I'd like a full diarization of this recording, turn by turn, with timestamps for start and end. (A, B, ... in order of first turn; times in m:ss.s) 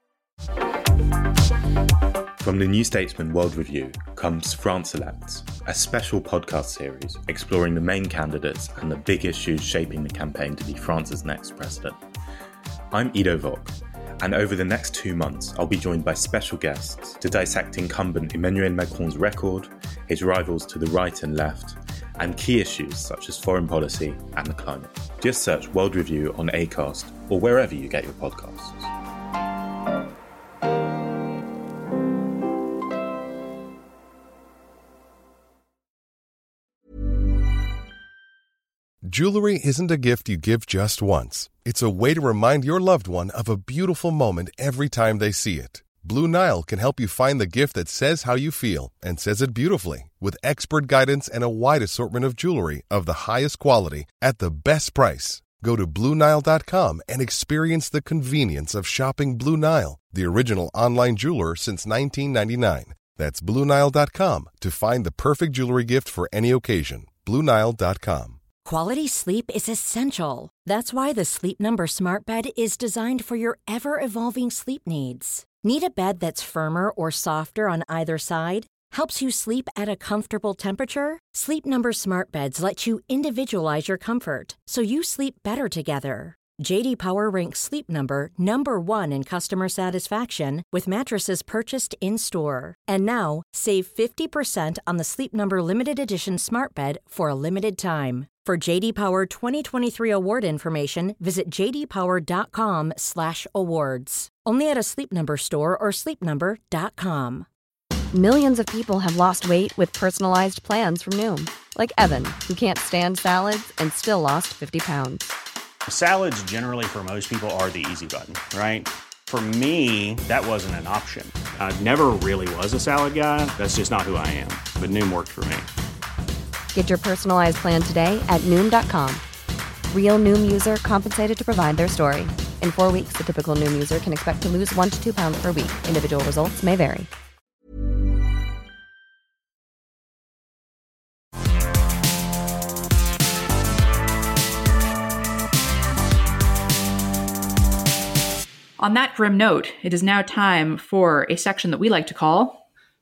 0:02.4-0:12.0 A
0:12.9-0:28.9 A
0:39.0-1:08.4 B
1:08.6-1:47.4 C
1:48.1-1:55.3 D
1:55.9-2:05.7 E
2:06.7-2:09.2 D
2:09.9-2:17.1 D
2:28.8-2:32.6 F